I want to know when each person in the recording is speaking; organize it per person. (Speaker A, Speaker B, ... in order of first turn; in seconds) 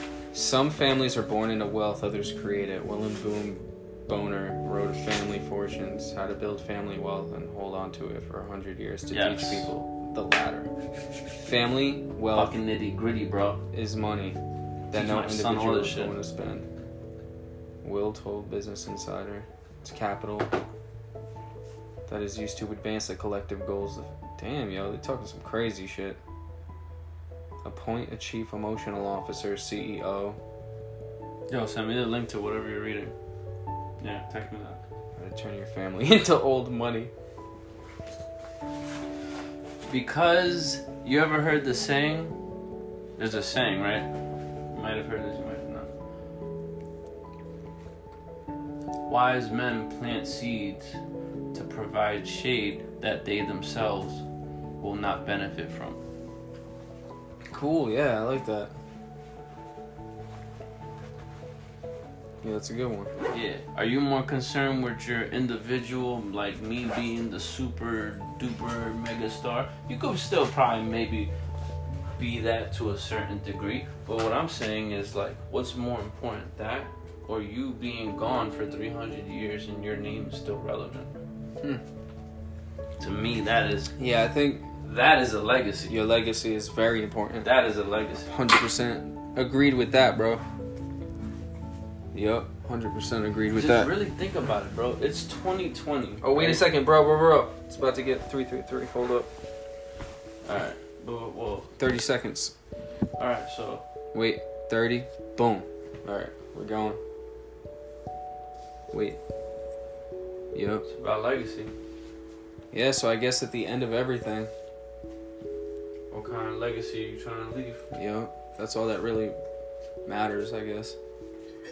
Speaker A: 0.3-10.7, 11.4-12.6, 13.7-14.4, 14.9-16.7, 17.8-20.5, 22.1-26.2, 27.6-30.4, 35.2-37.1, 57.5-58.7, 62.4-63.1, 84.0-84.7, 85.9-87.5, 88.3-90.4, 92.1-93.9, 96.2-99.3, 101.8-102.5, 104.1-107.0, 108.9-109.2, 110.5-110.8, 112.7-114.5, 117.9-119.4, 120.1-121.0
Speaker B: 9.1-9.7, 12.3-13.6, 14.9-16.2, 31.5-33.1, 34.0-34.8, 39.9-42.4, 43.2-44.1, 44.7-45.9, 49.1-51.0, 51.5-54.2, 54.8-56.0, 63.3-71.3, 72.2-81.2, 83.0-83.9, 84.8-86.0, 87.4-88.3, 93.5-96.7, 100.4-101.8, 103.2-103.8, 110.9-111.7, 116.1-117.9